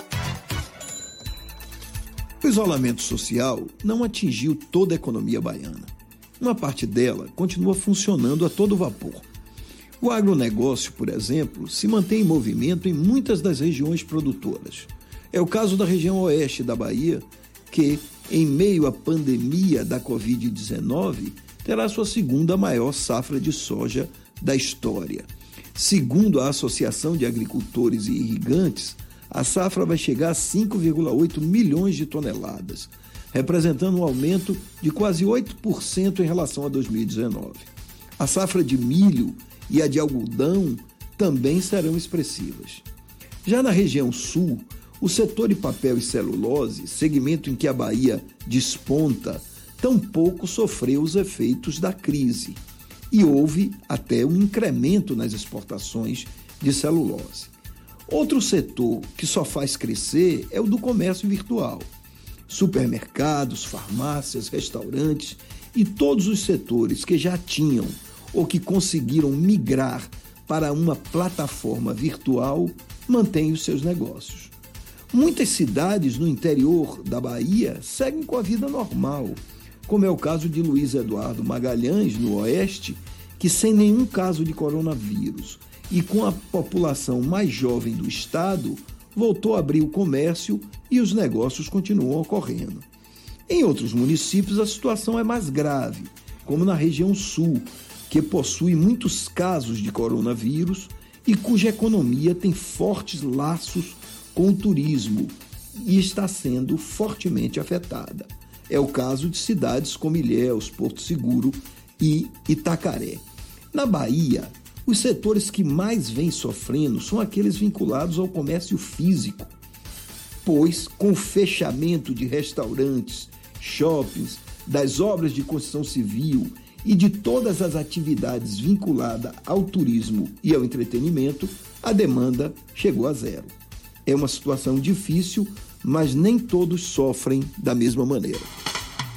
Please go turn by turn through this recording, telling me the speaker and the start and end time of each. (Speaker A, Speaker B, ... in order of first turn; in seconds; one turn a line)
Speaker A: 2.4-9.3
Speaker A: 10.0-42.9
Speaker A: 43.4-57.5
Speaker A: 58.1-61.9
Speaker A: 62.5-74.5
Speaker A: 75.1-92.9
Speaker A: 93.5-119.5
Speaker A: 120.4-138.5